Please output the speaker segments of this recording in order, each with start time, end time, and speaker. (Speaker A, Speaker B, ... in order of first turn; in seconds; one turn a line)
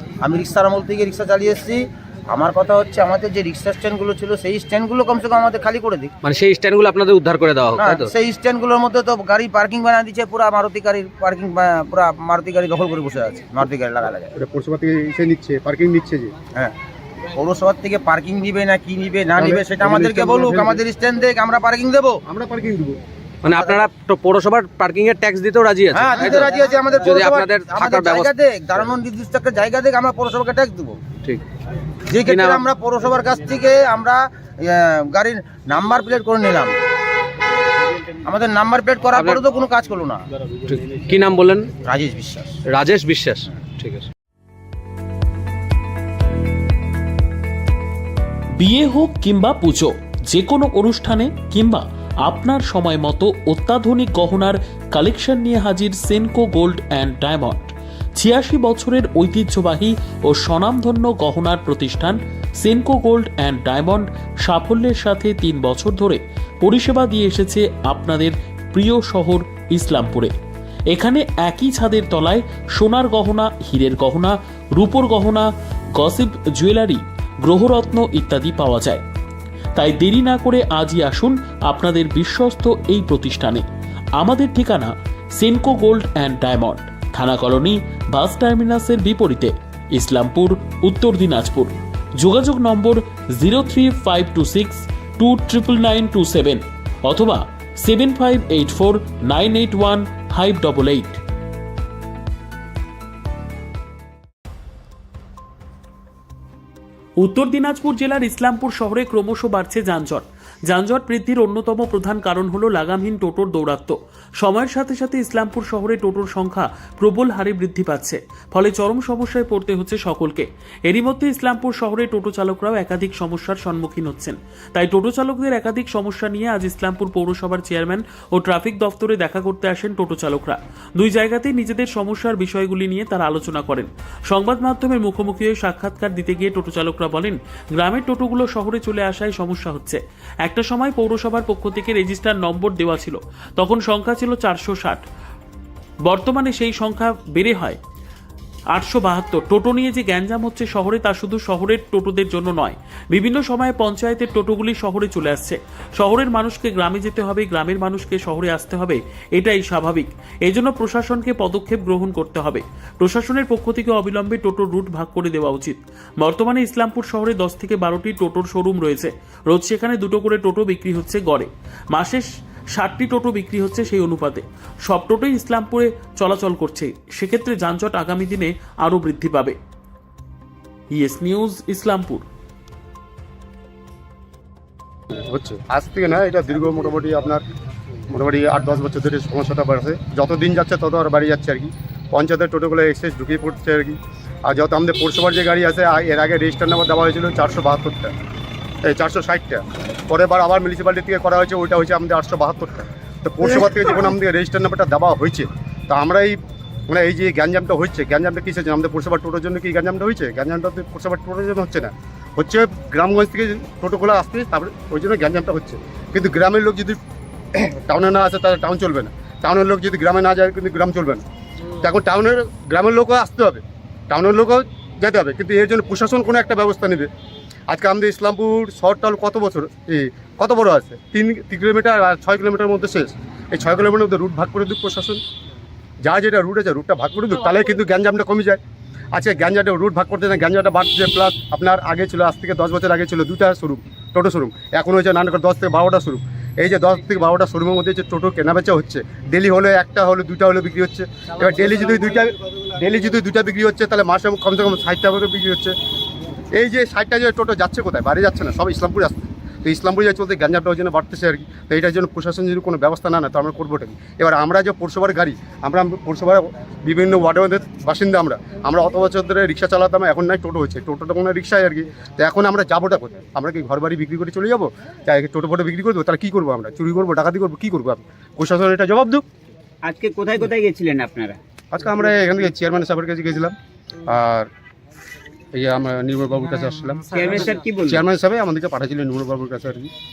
Speaker A: 0.2-6.1
Speaker B: 6.2-8.1
Speaker A: 7.8-14.3
Speaker C: 14.3-16.3
Speaker A: 17.4-22.2
Speaker C: 19.4-20.8
Speaker C: 22.3-23.0
Speaker B: 23.4-28.3
Speaker A: 23.5-23.9
Speaker A: 25.9-31.0
Speaker A: 32.1-36.8
Speaker B: 32.3-32.6
Speaker A: 38.2-40.3
Speaker B: 39.1-39.4
Speaker B: 40.7-41.7
Speaker A: 41.9-42.6
Speaker B: 42.7-44.1
Speaker D: 48.6-70.3
Speaker D: 70.9-79.0
Speaker D: 79.8-83.6
Speaker D: 84.2-101.2
Speaker D: 107.2-145.0
Speaker D: 146.1-147.8
Speaker D: 148.7-179.6
Speaker D: 180.9-182.2
Speaker C: 185.1-187.4
Speaker C: 188.1-198.1
Speaker C: 198.8-217.0
Speaker C: 217.6-221.2
Speaker C: 221.8-227.1
Speaker C: 227.7-235.2
Speaker C: 236.0-238.6
Speaker C: 239.1-255.8
Speaker C: 256.5-279.2
Speaker E: 279.9-281.4
Speaker C: 281.7-283.6
Speaker C: 284.1-284.5
Speaker C: 285.6-289.9
Speaker E: 287.1-288.1